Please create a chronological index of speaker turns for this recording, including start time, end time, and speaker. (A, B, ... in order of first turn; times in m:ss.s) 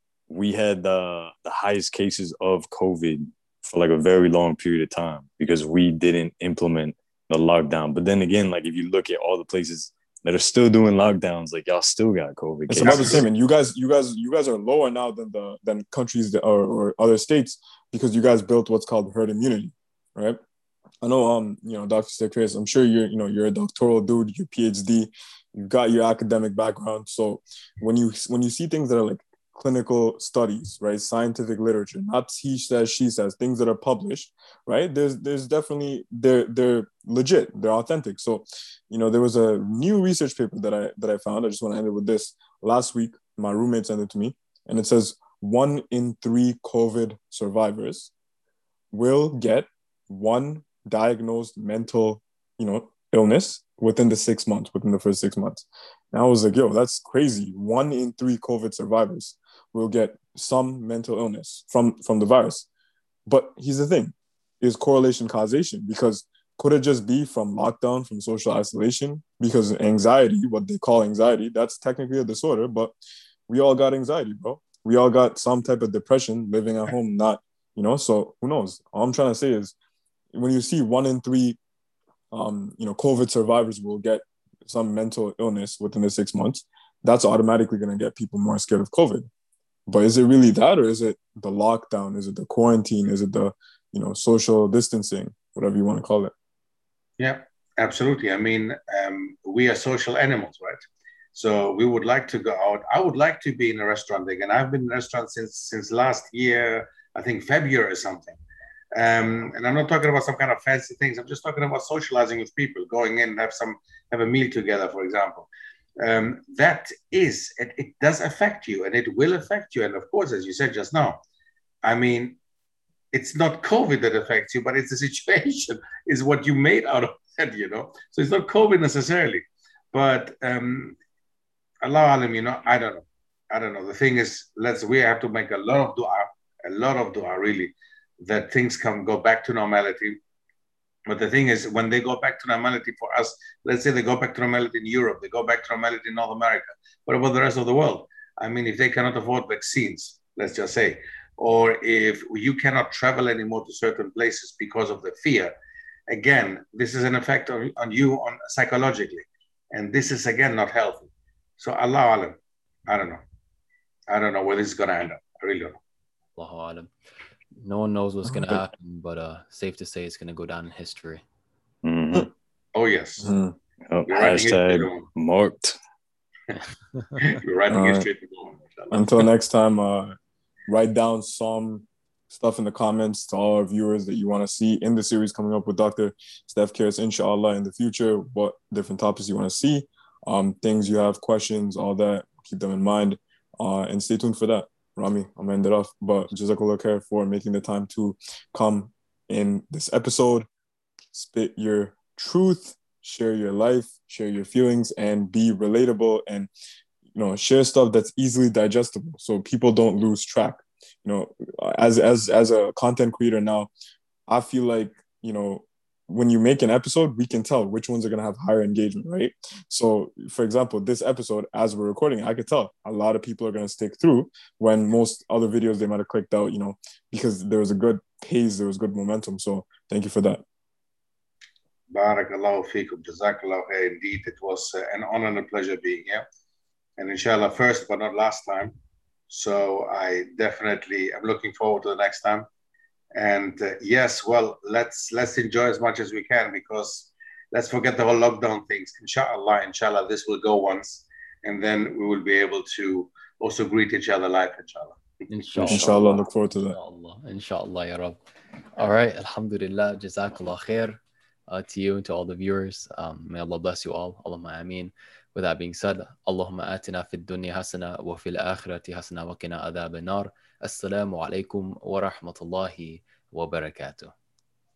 0:00.3-0:13.2 A
0:12.7-0:20.4 B
0:12.8-0:13.2 C
0:21.0-0:48.1 B
0:48.9-1:02.7 B
1:03.3-1:12.9 B
1:13.5-1:19.7 B
1:20.3-1:21.6 B
1:22.3-1:29.3 B
1:29.9-1:36.3 B
1:37.2-1:40.8 C
1:41.3-1:48.4 C
1:48.9-1:55.5 C
1:56.0-2:01.2 C
2:01.8-2:02.4 C
2:03.1-2:11.0 C
2:11.8-2:20.2 C
2:21.1-2:35.5 C
2:36.1-2:43.2 C
2:44.1-2:45.8 C
2:46.4-2:46.9 D
2:47.6-2:51.2 D
2:48.3-2:48.6 B
2:51.8-2:52.3 A
2:52.7-2:53.3 C
2:53.2-2:53.6 B
2:53.9-2:55.8 A
2:54.1-2:55.1 C
2:57.2-2:59.0 C
2:57.7-2:58.1 B
2:58.9-3:00.2 B
3:00.7-3:20.5 B
3:21.1-3:26.5 B
3:27.1-3:33.7 B
3:34.3-3:50.4 B
3:51.9-3:56.2 C
3:57.0-3:58.7 C
3:59.3-4:02.5 C
4:03.1-4:16.0 C
4:15.3-4:18.2 D
4:15.6-4:16.8 B
4:18.8-4:34.1 D